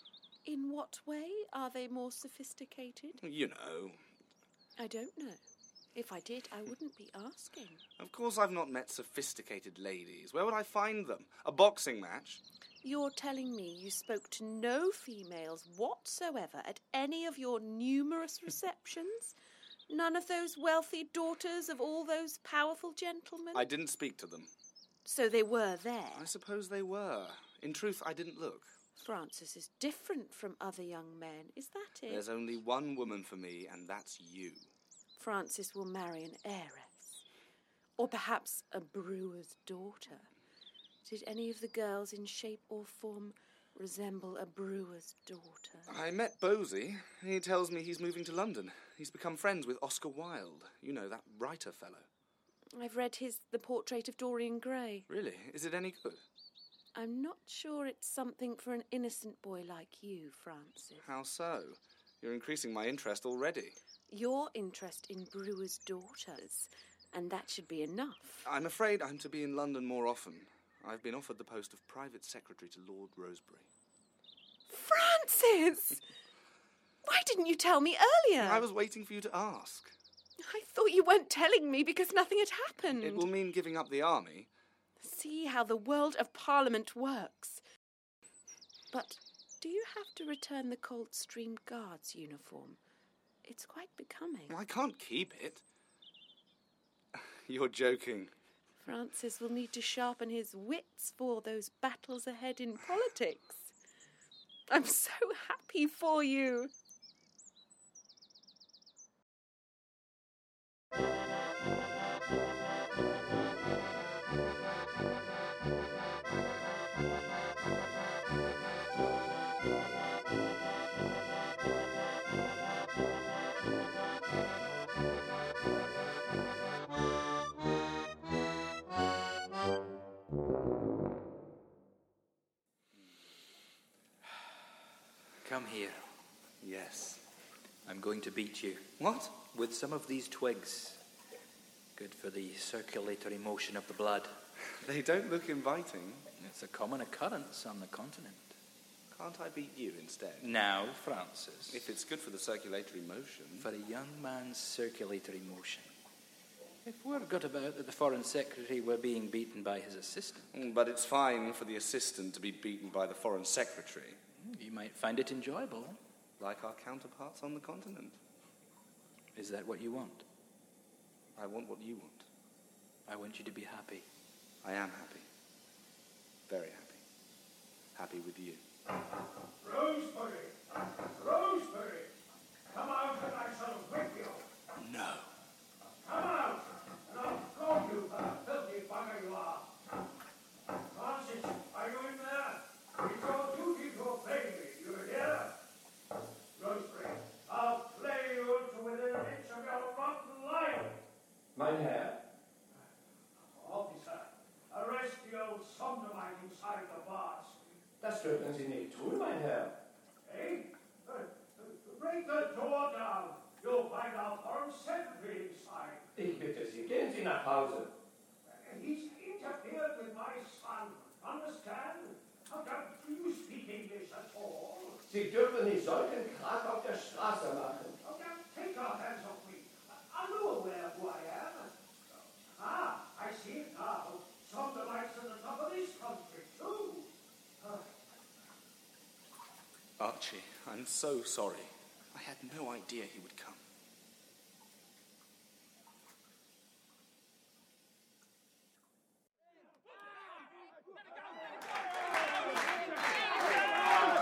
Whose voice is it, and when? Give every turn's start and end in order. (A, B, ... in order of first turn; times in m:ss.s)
0:00.4-0:03.2 A
0:03.2-0:04.0 B
0:04.8-0:05.4 A
0:05.9-0:07.8 A
0:08.0-0:12.4 B
0:12.8-0:19.3 A
0:19.9-0:23.6 A
0:23.5-0:24.5 B
0:25.0-0:26.3 A
0:26.1-0:28.7 B
0:29.0-0:32.2 A
0:32.1-0:34.7 B
0:35.2-0:37.2 A
0:38.0-0:40.3 A
0:41.0-0:45.9 A
0:45.9-0:52.0 B
0:52.7-0:55.1 A
0:55.1-0:56.2 B
0:56.9-1:01.0 A
1:01.0-1:03.8 B
1:04.1-1:08.4 A
1:08.4-1:13.7 B
1:14.7-1:16.0 A
1:17.0-1:18.6 A
1:18.4-1:19.9 B
1:20.4-1:23.3 A
1:23.0-1:24.5 B
1:25.0-1:27.6 A
1:28.9-1:32.8 A
1:33.4-1:34.5 A
1:34.5-1:35.6 B
1:37.1-1:38.3 B
1:38.8-1:43.7 A
1:44.7-1:46.7 A
2:15.4-2:16.0 C
2:16.6-2:17.2 B
2:17.8-2:21.0 C
2:19.0-2:19.3 B
2:22.0-2:24.3 C
2:24.8-2:26.3 B
2:26.4-2:28.5 C
2:29.1-2:30.5 B
2:30.4-2:31.8 C
2:31.7-2:33.7 B
2:33.6-2:35.9 C
2:36.8-2:40.5 C
2:40.5-2:44.2 B
2:44.4-2:46.0 C
2:46.4-2:48.2 B
2:49.3-2:50.2 C
2:51.4-2:52.3 B
2:53.1-2:54.0 C
2:54.6-2:55.2 B
2:56.5-2:57.0 B
2:57.9-2:58.6 B
2:59.6-3:02.1 D
3:02.7-3:04.4 D
3:04.8-3:05.3 B
3:06.0-3:09.7 D
3:10.8-3:15.5 D
3:16.5-3:21.0 D
3:21.5-3:22.2 E
3:23.4-3:27.6 D
3:28.0-3:29.8 E
3:30.2-3:36.1 D
3:36.1-3:37.9 E
3:38.4-3:45.0 D
3:45.0-3:48.0 E
3:48.0-3:51.7 D
3:52.5-3:57.1 D
4:00.0-4:03.6 B